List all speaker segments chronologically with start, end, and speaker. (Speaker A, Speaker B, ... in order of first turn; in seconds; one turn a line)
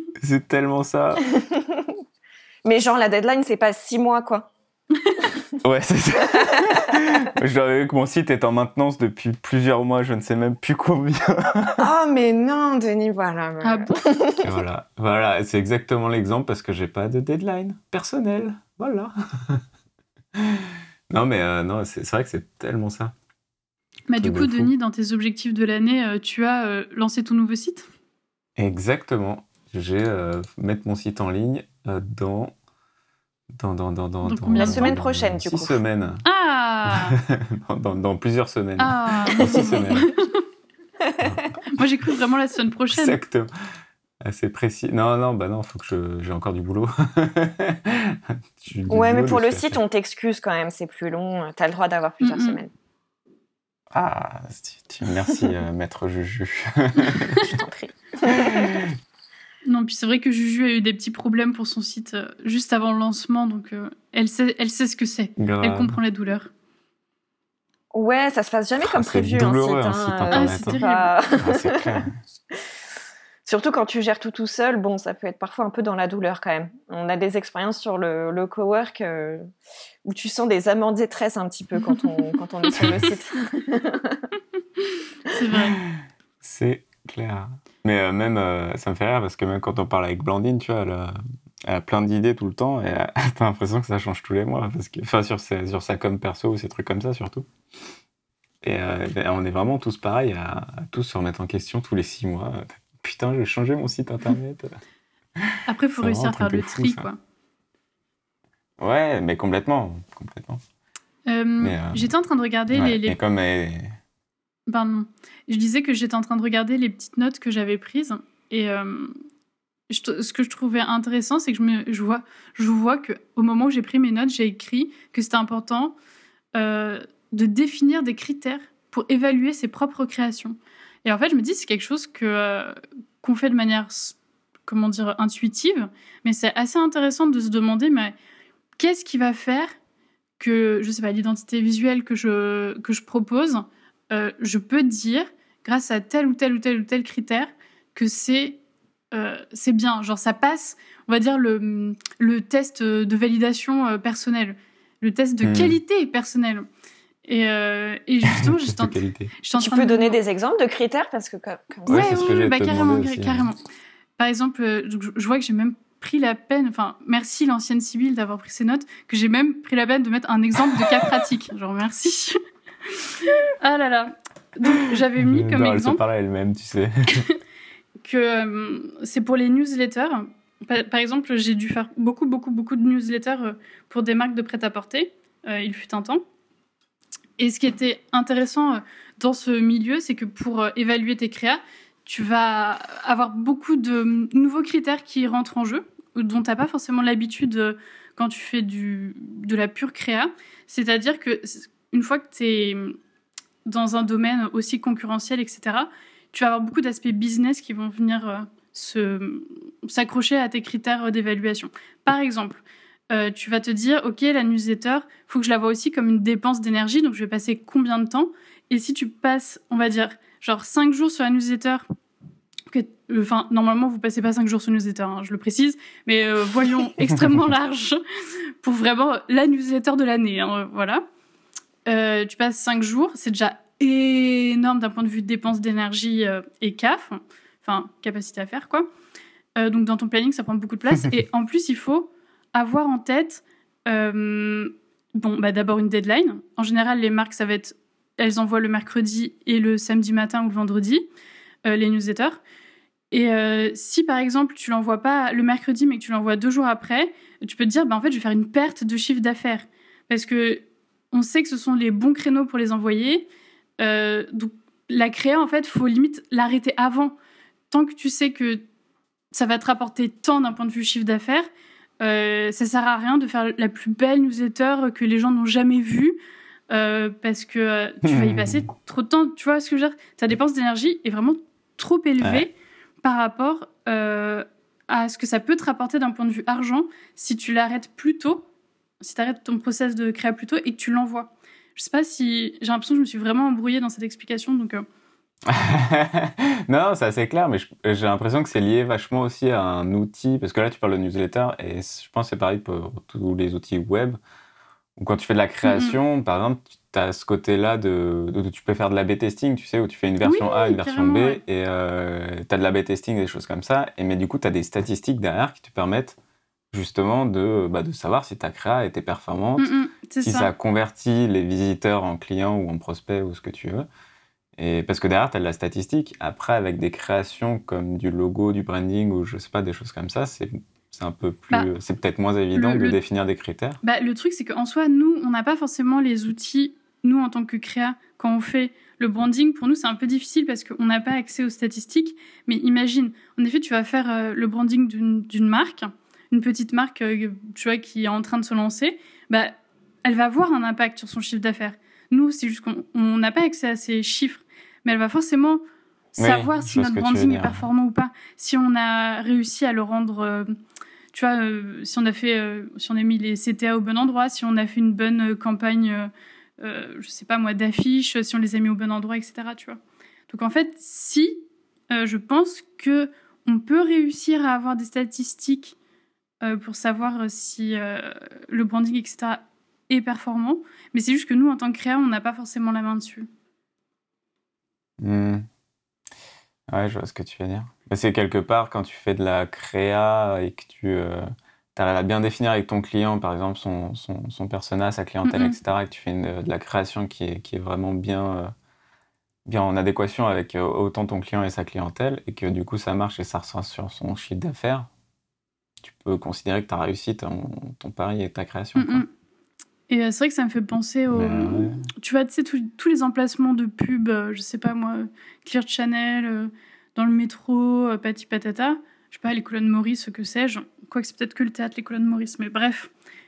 Speaker A: 0.2-1.3
Speaker B: 1.4-1.9
Speaker B: 2.6-4.5
Speaker B: 5.2-5.5
Speaker A: 5.6-11.9
Speaker B: 6.2-7.0
Speaker B: 11.8-14.4
Speaker C: 13.6-13.9
Speaker A: 14.4-19.6
Speaker A: 20.3-23.1
Speaker C: 24.1-27.9
Speaker A: 24.2-24.7
Speaker A: 28.6-32.5
Speaker A: 33.5-36.2
Speaker C: 34.2-35.0
Speaker B: 34.5-35.8
Speaker C: 36.2-37.1
Speaker A: 36.9-40.1
Speaker C: 38.8-40.4
Speaker B: 41.0-41.4
Speaker C: 41.7-43.2
Speaker A: 42.9-43.5
Speaker A: 44.2-49.8
Speaker B: 48.9-52.7
Speaker C: 52.2-52.6
Speaker A: 53.9-57.5
Speaker B: 57.4-58.7
Speaker A: 58.3-58.8
Speaker C: 59.6-66.5
Speaker A: 65.4-66.0
Speaker B: 67.9-72.5
Speaker A: 68.8-70.8
Speaker C: 70.3-71.1
Speaker A: 71.4-72.1
Speaker B: 73.4-79.5
Speaker B: 80.0-84.3
Speaker C: 85.3-85.8
Speaker A: 85.8-91.1
Speaker A: 91.7-97.5
Speaker A: 98.6-104.8
Speaker A: 105.4-107.1
Speaker C: 105.7-107.2
Speaker A: 108.8-110.6
Speaker C: 111.3-113.2
Speaker A: 111.6-112.1
Speaker A: 112.7-113.9
Speaker C: 114.7-119.1
Speaker C: 119.9-125.9
Speaker C: 126.5-138.1
Speaker C: 138.8-139.7
Speaker C: 140.4-148.6
Speaker C: 149.1-156.7
Speaker A: 155.4-155.8
Speaker C: 157.2-160.2
Speaker A: 158.8-159.3
Speaker B: 159.6-162.3
Speaker A: 161.9-163.5
Speaker C: 161.9-163.6
Speaker C: 164.2-172.4
Speaker C: 173.0-176.0
Speaker A: 174.7-177.3
Speaker C: 178.0-186.2
Speaker C: 187.4-203.0
Speaker C: 203.7-221.8
Speaker C: 222.7-228.0
Speaker C: 228.6-231.0
Speaker C: 231.8-238.9
Speaker C: 239.6-251.0
Speaker C: 251.7-252.4
Speaker C: 253.1-263.3
Speaker C: 263.8-267.1
Speaker C: 267.7-268.6
Speaker C: 269.3-271.5
Speaker C: 272.0-276.2
Speaker C: 276.7-288.4
Speaker A: 278.0-278.7
Speaker C: 289.0-294.9
Speaker A: 295.5-304.2
Speaker A: 305.0-316.2
Speaker C: 305.6-306.0
Speaker C: 310.2-311.4
Speaker A: 316.7-323.9
Speaker C: 319.6-320.5
Speaker A: 324.6-333.8
Speaker C: 332.5-333.0
Speaker C: 333.8-355.6
Speaker C: 356.1-360.5
Speaker A: 356.2-357.6
Speaker C: 361.1-375.8
Speaker C: 376.4-383.3
Speaker A: 385.0-385.5
Speaker A: 386.7-398.5
Speaker C: 395.2-395.6
Speaker A: 399.4-404.9
Speaker A: 405.8-409.0
Speaker C: 408.8-409.1
Speaker C: 409.9-422.9
Speaker A: 411.1-411.9